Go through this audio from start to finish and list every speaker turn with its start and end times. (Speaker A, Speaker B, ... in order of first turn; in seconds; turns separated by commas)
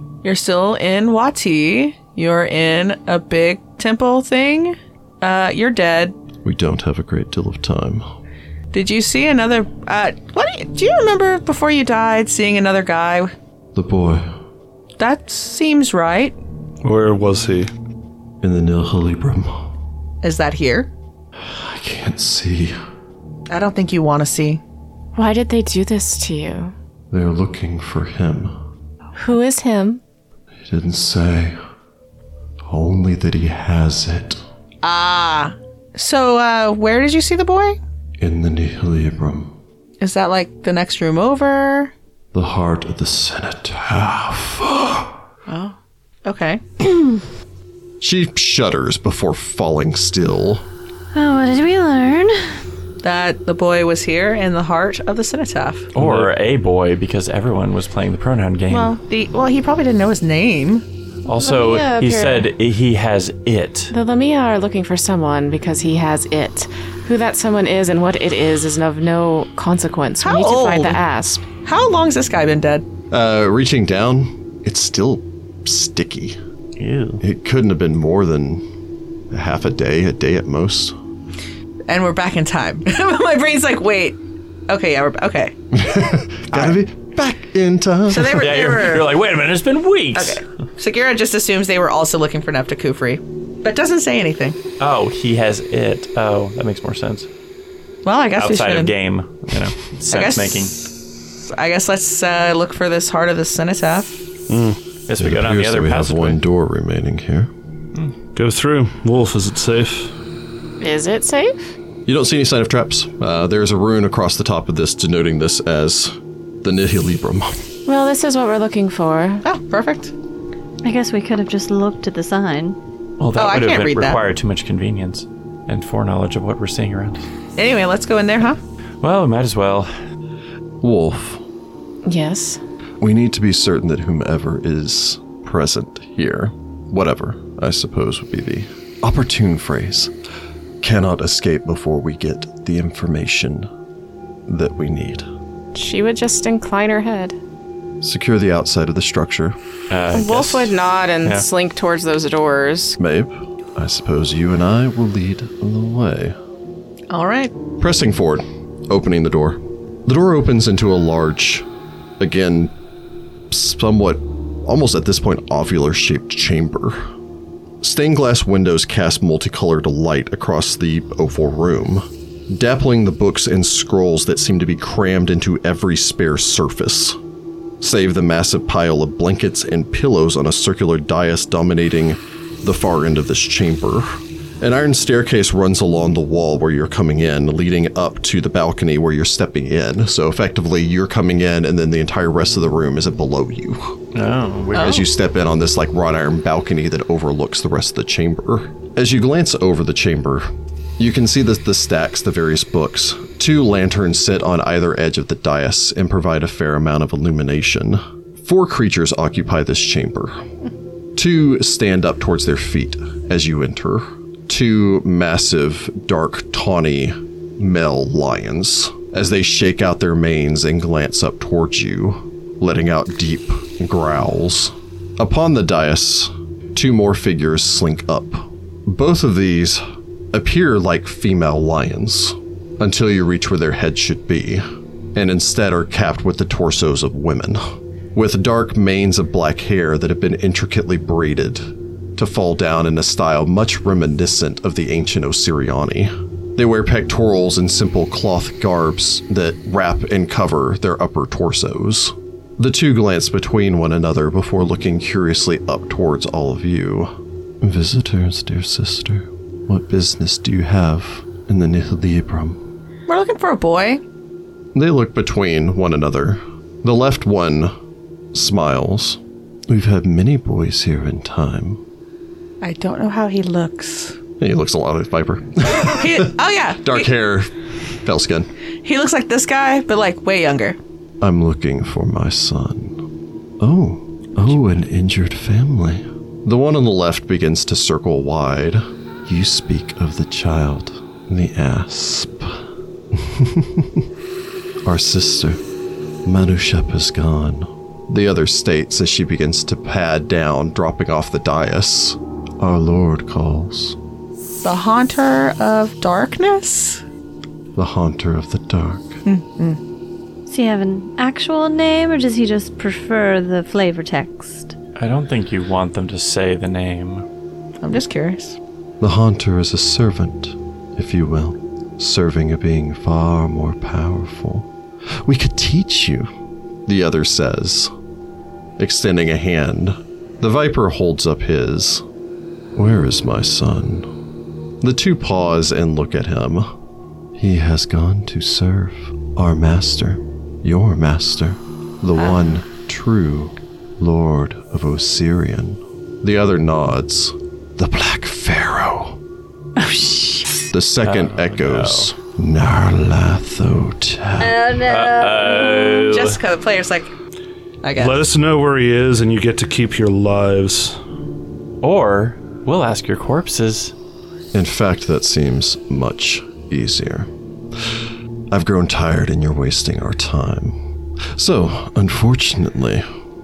Speaker A: 0.2-6.2, Speaker B: 6.4-8.1, Speaker A: 8.7-13.3, Speaker B: 13.7-14.3, Speaker A: 15.0-16.4, Speaker C: 16.8-17.7, Speaker B: 18.4-19.7, Speaker A: 20.2-20.9, Speaker B: 21.4-22.8, Speaker A: 23.5-24.6, Speaker D: 25.1-26.7, Speaker B: 27.1-28.5, Speaker D: 29.2-30.0, Speaker B: 30.6-31.6, Speaker B: 32.6-34.4, Speaker A: 34.8-37.8, Speaker B: 38.2-39.5, Speaker A: 40.0-41.9, Speaker B: 42.3-45.1, Speaker A: 45.5-46.9, Speaker B: 48.0-50.6, Speaker E: 51.1-52.6, Speaker A: 53.0-55.9, Speaker F: 56.0-59.0, Speaker A: 58.7-60.8, Speaker F: 61.2-63.9, Speaker D: 61.3-62.5, Speaker D: 63.9-71.5, Speaker A: 70.2-71.0, Speaker A: 71.6-72.9, Speaker B: 73.1-76.4, Speaker F: 76.8-77.2, Speaker B: 77.2-78.6, Speaker B: 79.3-80.9, Speaker A: 81.9-84.2, Speaker A: 84.7-85.5, Speaker B: 85.7-88.6, Speaker A: 86.5-86.8, Speaker A: 88.1-89.2, Speaker F: 88.1-90.4, Speaker A: 90.1-94.6, Speaker F: 94.8-97.3, Speaker A: 98.0-98.9, Speaker F: 98.4-100.7, Speaker A: 100.1-100.8, Speaker A: 101.5-104.2, Speaker C: 104.5-104.8, Speaker F: 105.1-106.4, Speaker B: 105.2-107.5, Speaker C: 108.4-110.1, Speaker D: 110.8-111.5, Speaker B: 112.0-117.6, Speaker D: 117.9-119.4, Speaker A: 119.4-120.1, Speaker E: 120.8-122.8, Speaker F: 123.2-127.2, Speaker A: 123.4-124.2, Speaker A: 127.6-128.6, Speaker F: 129.0-129.9, Speaker B: 130.8-131.4, Speaker D: 132.1-132.6, Speaker B: 133.0-140.1, Speaker B: 140.8-143.7, Speaker B: 144.5-145.2, Speaker D: 145.7-147.4, Speaker B: 148.0-149.6, Speaker F: 149.9-151.4, Speaker D: 150.1-153.0, Speaker B: 153.0-156.4, Speaker A: 157.1-157.5, Speaker B: 157.8-161.7, Speaker B: 162.2-162.7, Speaker B: 163.5-167.0, Speaker B: 167.8-177.2, Speaker B: 177.8-193.9, Speaker F: 194.1-195.1, Speaker B: 194.7-200.5, Speaker B: 201.0-210.4, Speaker B: 211.1-229.8, Speaker B: 230.3-234.6, Speaker B: 235.1-237.6, Speaker B: 238.1-241.6, Speaker B: 242.2-262.6, Speaker A: 263.1-264.0, Speaker B: 264.7-267.7, Speaker B: 268.3-271.8, Speaker A: 272.6-274.1, Speaker B: 274.4-277.5, Speaker A: 275.8-277.1, Speaker B: 278.0-278.5, Speaker A: 278.8-280.8, Speaker B: 281.2-283.0, Speaker B: 283.6-294.1, Speaker B: 294.8-295.6, Speaker B: 296.2-304.0, Speaker A: 304.6-307.0, Speaker B: 307.8-309.2, Speaker A: 309.2-309.8, Speaker E: 310.5-314.7, Speaker F: 315.0-317.2, Speaker A: 317.8-318.6, Speaker B: 319.0-324.7, Speaker B: 325.2-326.3, Speaker B: 326.9-327.9, Speaker B: 328.8-332.0, Speaker B: 332.7-334.1, Speaker B: 334.8-336.7, Speaker B: 337.4-349.2, Speaker E: 349.8-350.5, Speaker B: 350.7-354.6, Speaker F: 351.0-352.1, Speaker E: 354.4-356.1, Speaker F: 354.8-356.4, Speaker A: 356.1-357.1, Speaker A: 357.8-358.2, Speaker C: 357.9-361.0, Speaker F: 361.8-363.9, Speaker B: 364.5-367.3, Speaker B: 368.5-370.8, Speaker B: 371.3-373.0